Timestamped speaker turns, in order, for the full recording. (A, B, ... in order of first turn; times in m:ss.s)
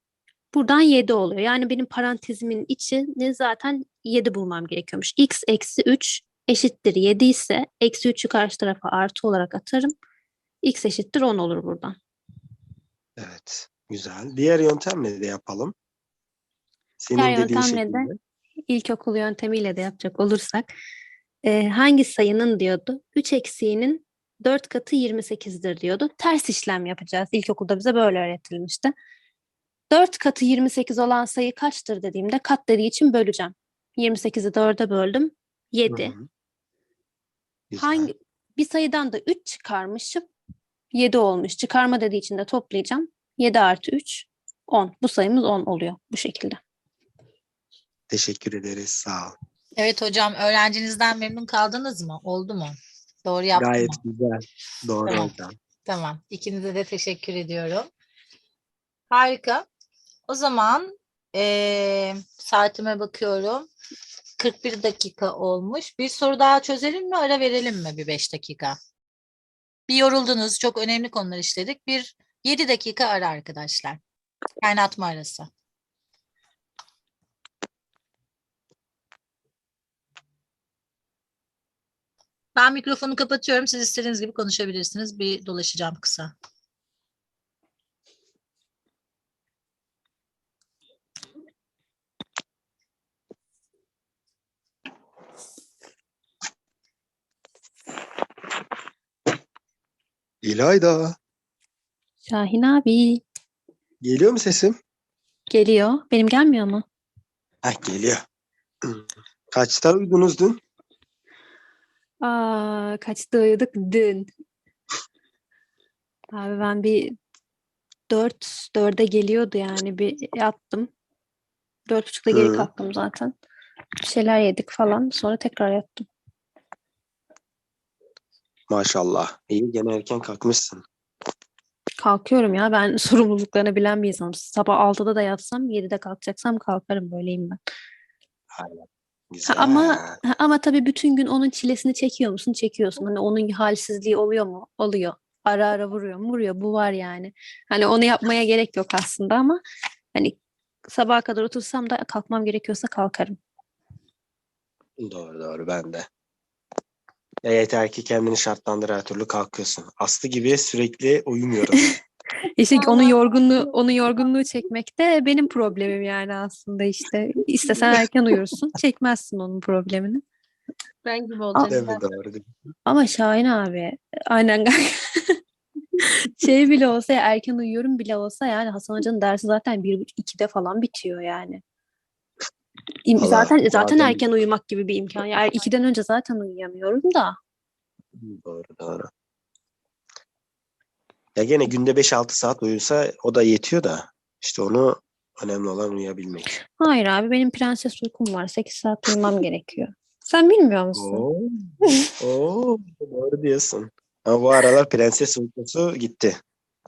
0:00.5-0:09.9 A
0:10.6-0:12.0 A
0:13.2-0:15.7 B
0:17.0-0:18.2 B
0:17.2-0:18.1 A
0:18.7-0:20.7 A
0:21.4-0:28.9 A
0:29.9-0:36.2 A
0:35.9-0:36.3 B
0:37.7-0:38.1 B
0:37.8-0:40.2 A
0:40.9-0:46.6 A
0:48.1-0:49.4 B
0:49.8-0:54.0 C
0:53.6-0:55.6 B
0:55.1-0:55.3 C
0:55.8-0:57.9 C
0:59.1-0:59.7 C
1:00.3-1:03.7 C
1:04.4-1:08.8 C
1:09.9-1:14.0 C
1:14.6-1:15.5 C
1:22.6-1:26.3 C
1:40.4-1:41.2 B
1:42.2-1:43.2 A
1:44.0-1:44.8 B
1:45.5-1:46.8 A
1:47.6-1:48.2 B
1:48.8-1:50.6 B
1:52.2-1:54.3 A
1:56.3-1:57.1 A
1:58.1-2:00.9 A
2:01.9-2:03.3 A
2:02.3-2:02.7 B
2:04.0-2:06.1 A
2:08.7-2:10.8 B
2:12.0-2:17.6 A
2:18.5-2:20.2 B
2:19.5-2:29.6 A
2:30.2-2:33.4 A
2:35.0-2:36.1 B
2:37.4-2:41.8 B
2:42.6-2:50.2 A
2:42.6-2:44.2 D
2:51.0-2:52.0 D
2:51.7-2:52.5 B
2:52.9-2:55.4 A
2:56.0-3:01.6 A
3:03.0-3:07.4 A
3:03.2-3:04.2 B
3:08.2-3:09.1 B
3:11.4-3:16.5 B
3:16.8-3:21.2 A
3:21.0-3:26.4 B